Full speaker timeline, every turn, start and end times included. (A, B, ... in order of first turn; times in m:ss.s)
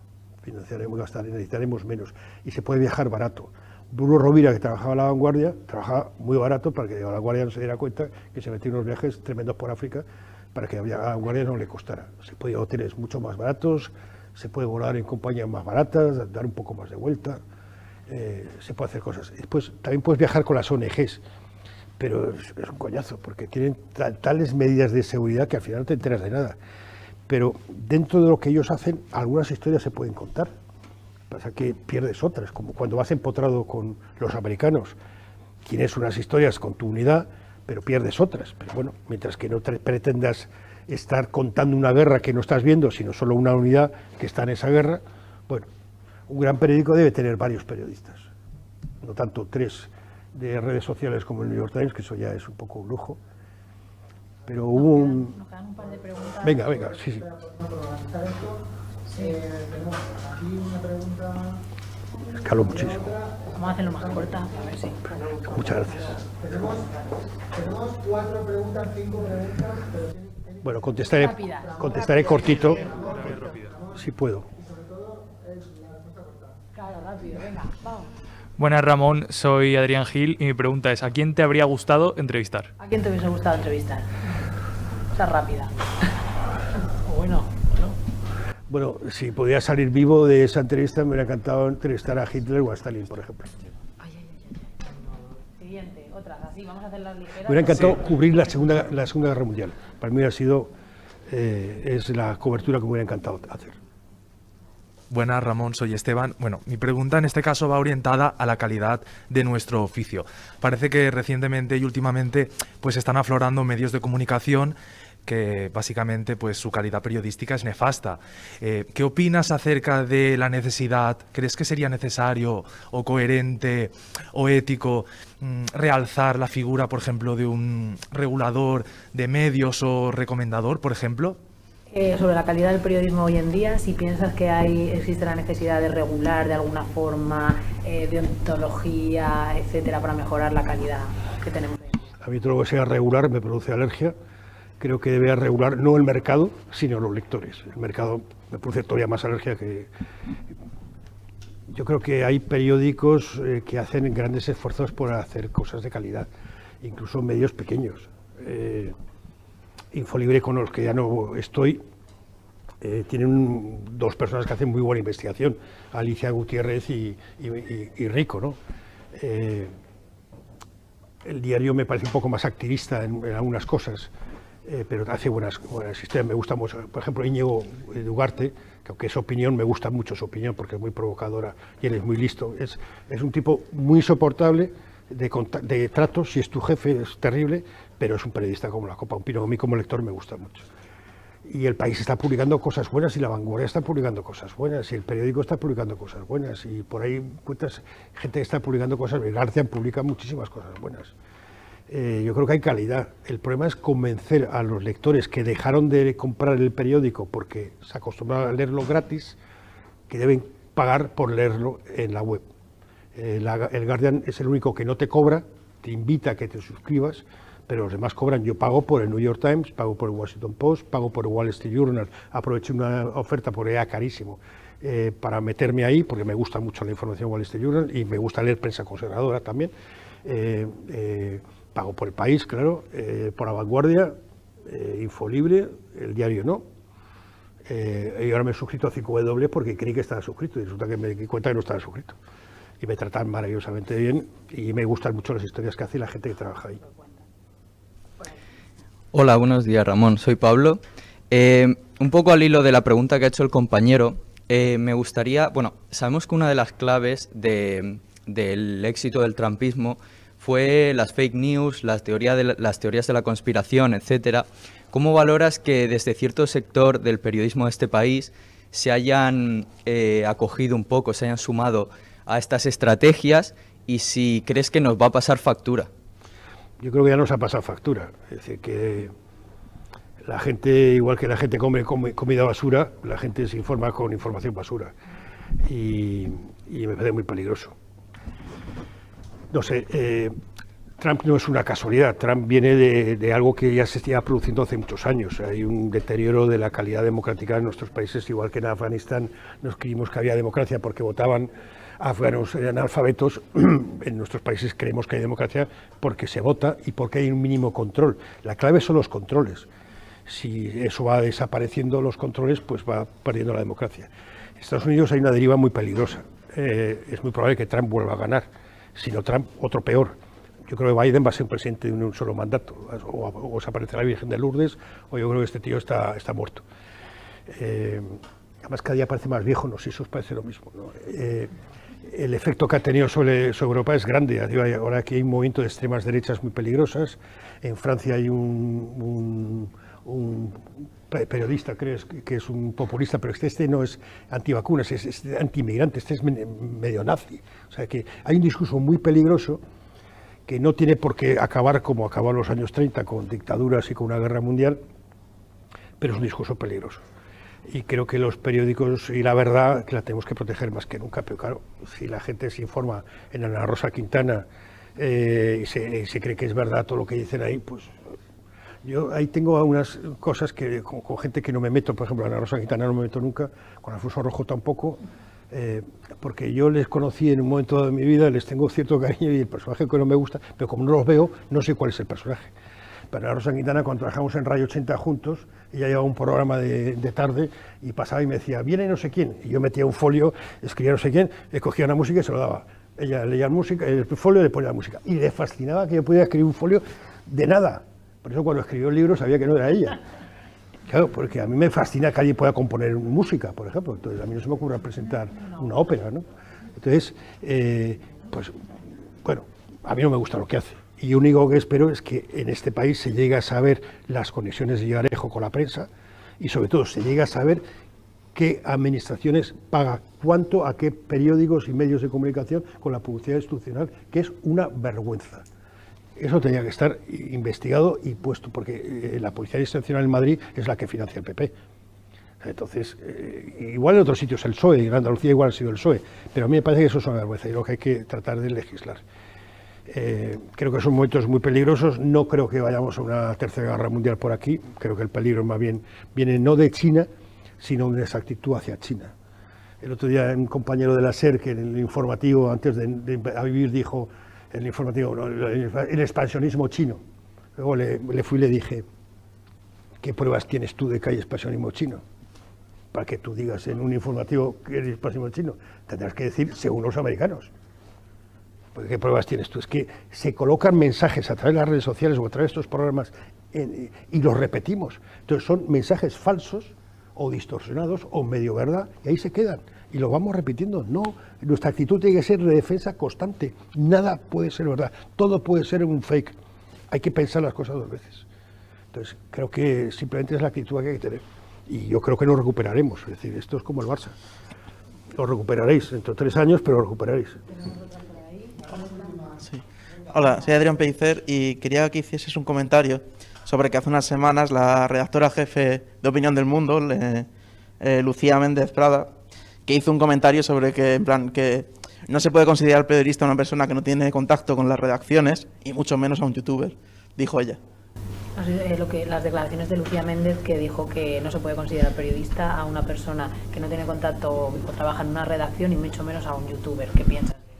0:00.4-0:17.4 A
0:18.1-0:21.2 A
0:22.0-0:26.6 A
0:27.3-0:30.5 A
0:31.3-0:35.0 A
0:35.6-0:45.7 A
0:46.3-0:48.3 A
0:49.0-0:53.2 A
0:54.5-0:55.3 A
0:54.8-0:56.6 B
0:56.4-0:57.2 A
0:57.2-0:58.6 C
0:59.1-0:59.4 B
0:59.2-1:01.6 C
1:02.3-1:03.1 A
1:02.8-1:04.4 C
1:03.5-1:06.1 B
1:05.5-1:06.1 A
1:06.1-1:06.9 C
1:07.5-1:10.1 C
1:10.6-1:13.4 A
1:11.2-1:13.6 B
1:11.7-1:12.0 C
1:12.7-1:13.9 C
1:13.9-1:14.5 A
1:14.7-1:16.2 C
1:16.8-1:18.1 B
1:18.6-1:22.7 D
1:22.8-1:24.2 B
1:25.1-1:25.8 B
1:27.0-1:28.0 B
1:28.7-1:33.7 A
1:35.6-1:38.0 B
1:37.4-1:40.7 A
1:41.3-1:43.8 A
1:45.1-2:11.4 E
2:11.9-2:22.0 B
2:22.2-2:24.2 A
2:24.8-2:29.9 A
2:31.7-2:36.3 A
2:36.8-2:38.9 A
2:39.9-2:41.8 A
2:42.8-2:48.6 A
2:49.1-2:49.7 A
2:51.2-2:54.1 A
2:54.6-3:10.7 A
3:11.5-3:21.1 A
3:21.9-3:29.4 A
3:30.1-3:32.4 A
3:33.2-3:49.7 A
3:50.2-3:56.6 A
3:57.7-4:02.2 A
4:02.8-4:06.8 A
4:09.1-4:35.9 F
4:36.8-4:39.1 A
4:40.2-4:44.9 A
4:45.6-4:47.8 A
4:49.5-4:50.3 A
4:51.0-5:09.7 A
5:10.3-5:20.2 A
5:20.7-5:26.6 A
5:27.5-5:31.5 A
5:32.1-5:49.6 A
5:50.5-5:54.8 A
5:56.0-5:57.0 A
5:57.7-6:08.0 A
6:08.8-6:22.5 A
6:23.1-6:40.0 A
6:40.9-6:46.2 A
6:46.8-6:48.6 A
6:49.2-6:57.6 A
6:58.3-7:05.5 A
7:06.2-7:11.5 A
7:12.4-7:19.0 A
7:19.9-7:27.1 A
7:27.6-7:29.1 A
7:29.8-7:37.0 A
7:37.6-7:38.9 A
7:40.0-7:42.0 A
7:42.9-7:47.5 A
7:48.7-8:06.4 A
8:06.9-8:08.3 A
8:08.9-8:14.2 A
8:15.1-8:17.4 A
8:19.4-8:27.3 G
8:27.8-8:29.1 G
8:29.7-8:37.6 G
8:38.4-8:47.4 B